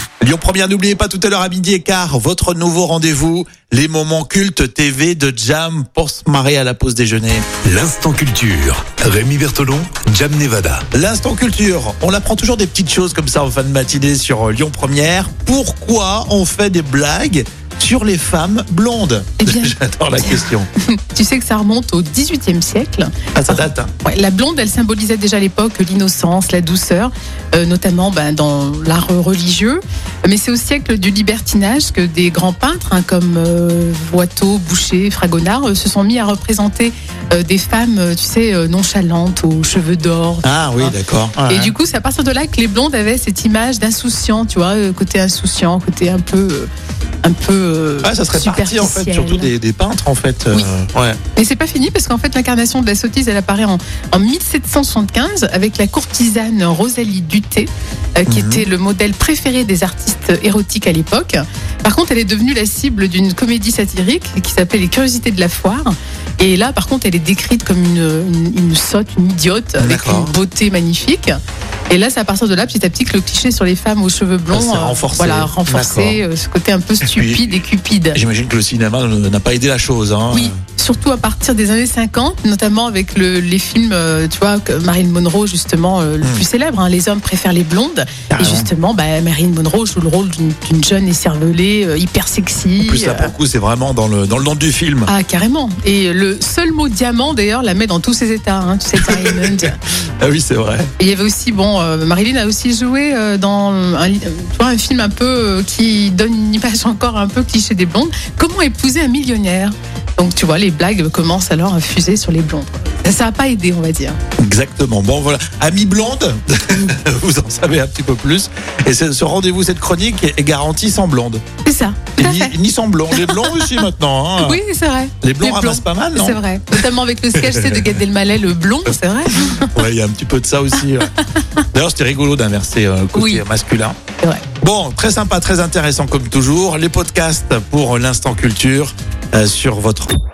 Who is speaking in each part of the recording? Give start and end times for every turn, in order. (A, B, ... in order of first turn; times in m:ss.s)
0:00.2-0:07.4 A
0:07.6-0:10.8 B
0:10.9-0:20.7 A
0:19.4-0:19.7 C
0:20.2-0:40.9 C
0:23.3-0:23.9 A
0:40.4-0:41.7 A
0:41.5-0:46.7 C
0:47.2-0:49.5 C
0:48.0-0:51.2 A
0:51.4-1:11.4 C
0:58.3-0:58.7 A
1:09.8-1:10.3 A
1:11.9-1:18.2 C
1:14.5-1:16.2 A
1:17.1-1:17.5 A
1:18.1-1:20.5 A
1:20.3-1:33.3 C
1:28.3-1:28.7 A
1:32.8-1:35.1 A
1:35.1-1:39.8 C
1:39.0-1:39.7 A
1:40.2-1:40.9 A
1:41.0-1:54.2 C
1:54.4-2:01.4 A
2:01.6-2:02.5 C
2:02.2-2:04.6 A
2:03.1-2:03.9 C
2:04.4-2:09.8 C
2:05.2-2:06.4 A
2:07.4-2:08.0 A
2:09.3-2:11.1 A
2:11.7-2:14.0 A
2:13.1-2:13.4 C
2:14.6-2:20.1 A